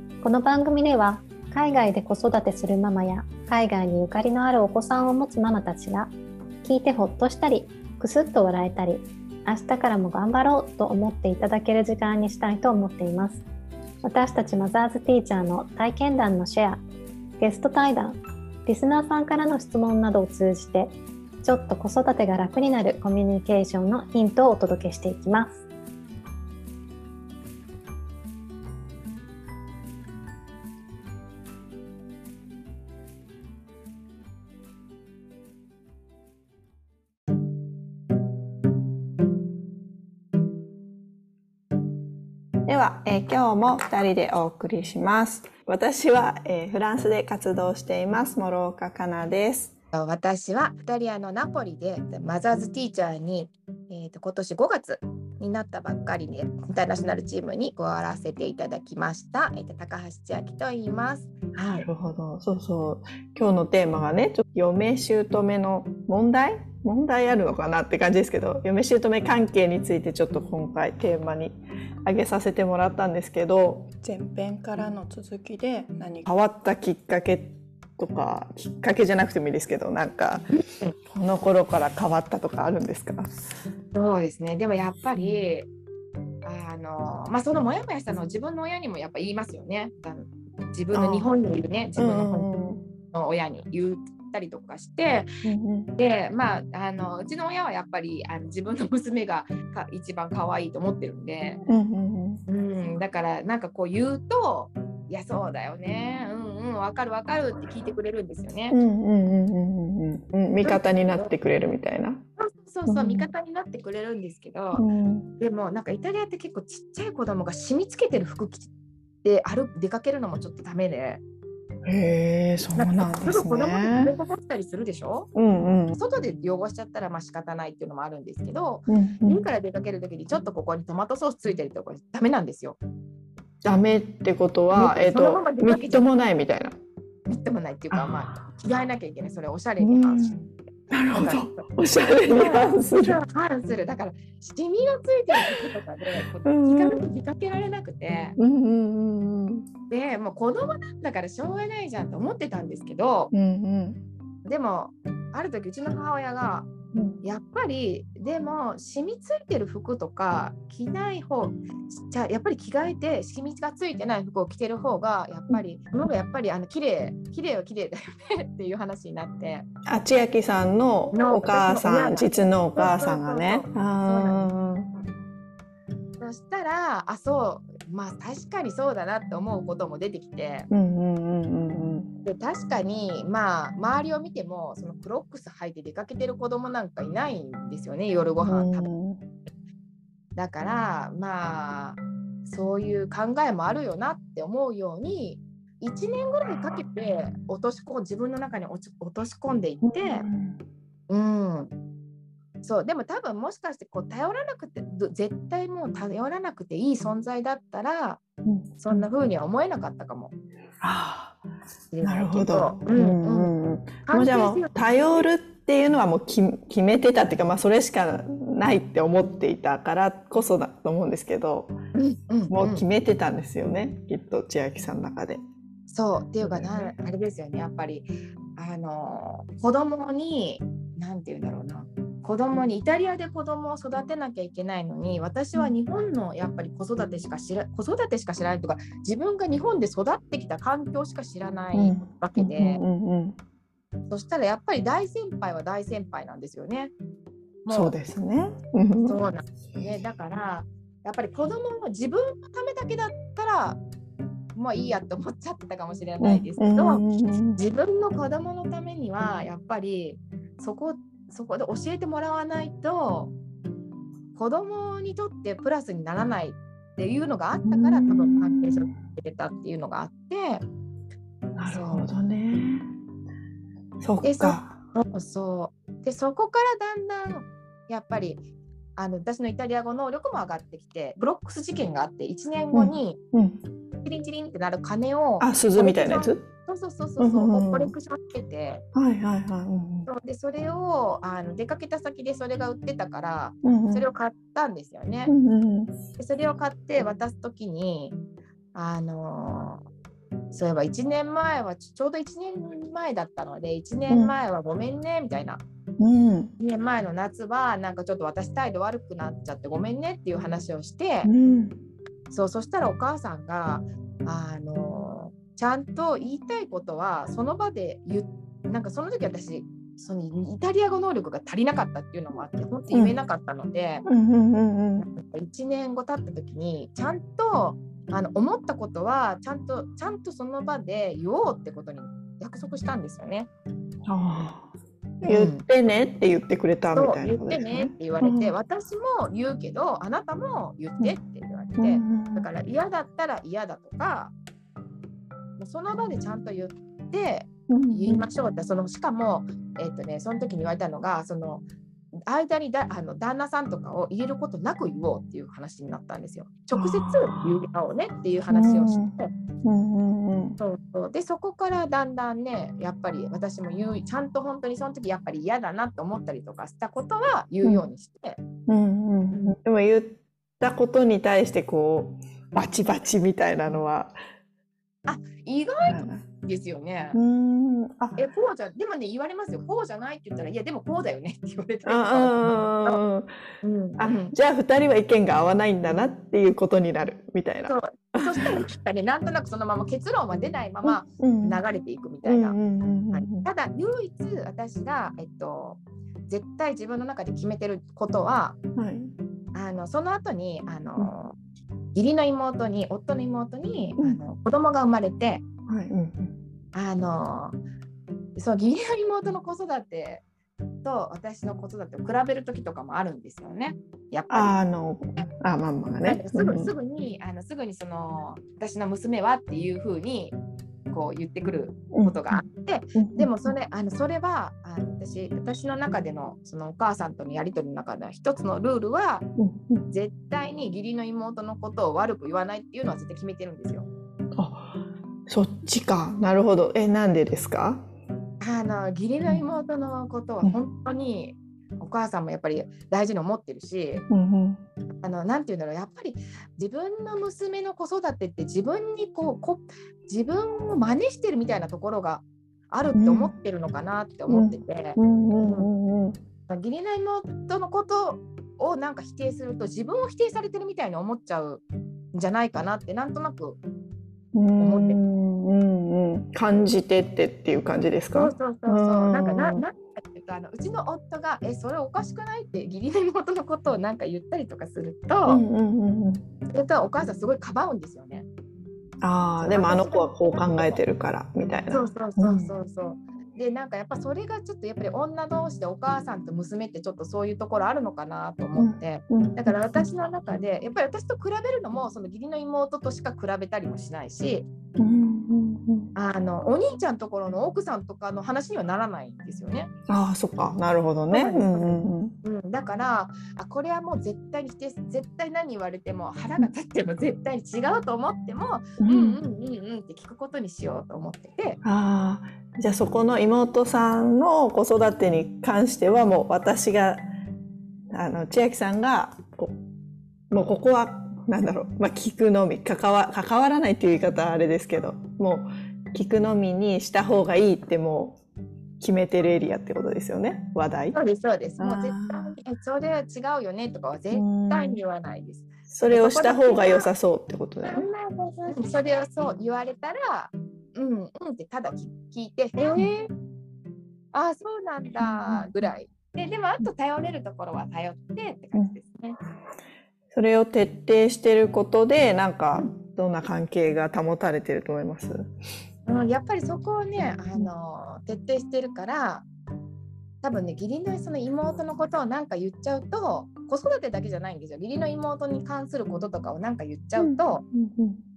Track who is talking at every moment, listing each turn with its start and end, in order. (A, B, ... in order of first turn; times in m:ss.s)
0:00.2-0:13.4 A
0:14.0-0:16.8 A
0:17.4-0:25.6 A
0:42.7-0:49.7 B
0:49.9-1:01.9 C
1:01.8-1:20.5 B
1:20.6-1:21.0 C
1:21.1-1:23.3 B
1:23.9-1:25.7 C
1:25.2-1:25.4 B
1:26.4-1:32.5 C
1:30.9-1:31.3 B
1:32.0-1:32.8 B
1:33.1-1:35.3 C
1:35.4-1:35.9 B
1:36.0-1:41.6 C
1:41.7-1:42.4 B
1:42.5-1:48.8 C
1:48.7-1:52.2 B
1:50.6-1:51.3 C
1:52.4-1:54.8 C
1:52.9-1:53.3 B
1:54.7-1:55.3 B
1:55.4-1:58.7 C
1:59.2-2:01.2 C
2:01.8-2:04.1 B
2:02.8-2:05.3 C
2:05.3-2:06.0 B
2:06.0-2:12.8 C
2:08.9-2:09.4 B
2:13.6-2:16.8 B
2:14.7-2:16.1 C
2:17.3-2:20.3 C
2:17.9-2:18.4 B
2:19.8-2:23.2 B
2:21.1-2:21.7 C
2:22.3-2:28.4 C
2:26.4-2:27.0 B
2:28.4-2:29.7 B
2:29.9-2:33.3 C
2:33.3-2:34.0 B
2:34.4-2:36.7 C
2:36.9-2:37.2 B
2:37.2-2:49.7 C
2:49.9-2:54.9 B
2:51.1-2:54.5 C
2:56.2-3:00.7 C
3:00.7-3:02.1 B
3:02.2-3:08.9 C
3:08.4-3:09.2 B
3:10.4-3:20.3 C
3:19.8-3:20.6 B
3:21.1-3:21.7 C
3:22.6-3:28.2 C
3:28.4-3:29.1 B
3:28.8-3:30.3 C
3:30.8-3:31.4 B
3:31.9-3:33.5 C
3:32.0-3:41.8 B
3:34.0-3:35.2 C
3:41.9-3:42.8 C
3:42.5-3:45.4 B
3:45.9-4:02.8 C
3:46.4-3:46.9 B
4:01.7-4:03.4 B
4:04.1-4:06.9 C
4:07.6-4:08.0 C
4:07.7-4:09.2 B
4:09.0-4:13.8 C
4:14.6-4:17.0 C
4:16.2-4:17.6 B
4:17.6-4:23.3 C
4:24.4-4:30.6 C
4:27.6-4:28.9 B
4:31.6-4:32.9 B
4:31.7-4:32.1 C
4:34.0-4:34.8 B
4:34.2-4:38.4 C
4:39.0-4:43.2 C
4:42.7-4:43.6 B
4:44.0-4:48.8 C
4:45.4-4:46.5 B
4:47.2-4:47.9 B
4:48.9-4:50.1 B
4:50.1-4:55.3 C
4:53.6-4:54.1 B
4:55.3-4:55.9 B
4:56.2-4:58.2 C
4:58.7-4:59.8 C
5:00.5-5:05.6 C
5:04.1-5:04.4 B
5:06.0-5:06.5 B
5:06.6-5:11.3 C
5:11.2-5:11.8 B
5:12.3-5:24.0 C
5:24.0-5:25.1 B
5:25.0-5:33.5 C
5:34.1-5:34.7 B
5:35.2-5:38.5 B
5:35.3-5:35.6 C
5:36.9-5:44.3 C
5:41.8-5:42.5 B
5:45.6-5:51.6 C
5:47.7-5:48.3 B
5:52.3-5:59.3 C
5:56.7-5:57.5 B
5:58.5-6:00.6 B
6:00.6-6:08.4 C
6:08.7-6:14.2 B
6:15.1-6:17.2 C
6:15.8-6:16.3 B
6:17.1-6:18.2 B
6:18.2-6:23.0 C
6:21.9-6:23.3 B
6:23.6-6:24.4 C
6:24.0-6:28.6 B
6:27.7-6:32.6 C
6:30.8-6:31.6 B
6:32.2-6:33.5 B
6:33.1-6:38.6 C
6:38.8-6:39.1 B
6:39.5-6:41.4 C
6:42.0-6:45.4 C
6:45.7-6:46.4 B
6:46.7-6:47.6 C
6:48.4-6:50.2 C
6:50.8-6:54.6 C
6:54.3-6:56.7 B
6:56.0-7:00.4 C
7:00.9-7:09.3 C
7:01.9-7:02.4 B
7:03.0-7:03.3 B
7:09.4-7:09.8 B
7:09.9-7:13.9 C
7:14.4-7:14.8 B
7:15.3-7:17.8 B
7:18.4-7:24.0 C
7:24.1-7:24.6 B
7:25.0-7:35.7 C
7:33.0-7:33.3 B
7:34.3-7:36.2 B
7:36.5-7:41.6 C
7:42.1-7:43.6 C
7:44.3-7:49.6 B
7:44.6-7:45.0 C
7:48.1-7:55.4 C
7:55.3-7:56.3 B
7:56.5-7:58.3 C
7:59.0-8:02.5 B
7:59.4-8:00.8 C
8:01.7-8:14.5 C
8:08.6-8:09.8 B
8:14.8-8:15.9 B
8:16.0-8:19.7 C
8:19.9-8:22.2 B
8:21.1-8:31.6 C
8:28.8-8:29.2 B
8:31.6-8:37.0 B
8:37.9-8:39.6 B
8:40.3-8:48.2 B
8:48.8-8:51.0 B
8:50.9-8:56.9 C
8:51.6-8:52.4 B
8:54.1-8:54.8 B
8:55.7-8:57.9 B
8:57.6-9:03.1 C
9:04.1-9:09.2 C
9:05.0-9:05.5 B
9:10.1-9:15.3 B
9:15.9-9:19.3 C
9:20.2-9:27.4 C
9:27.0-9:28.0 B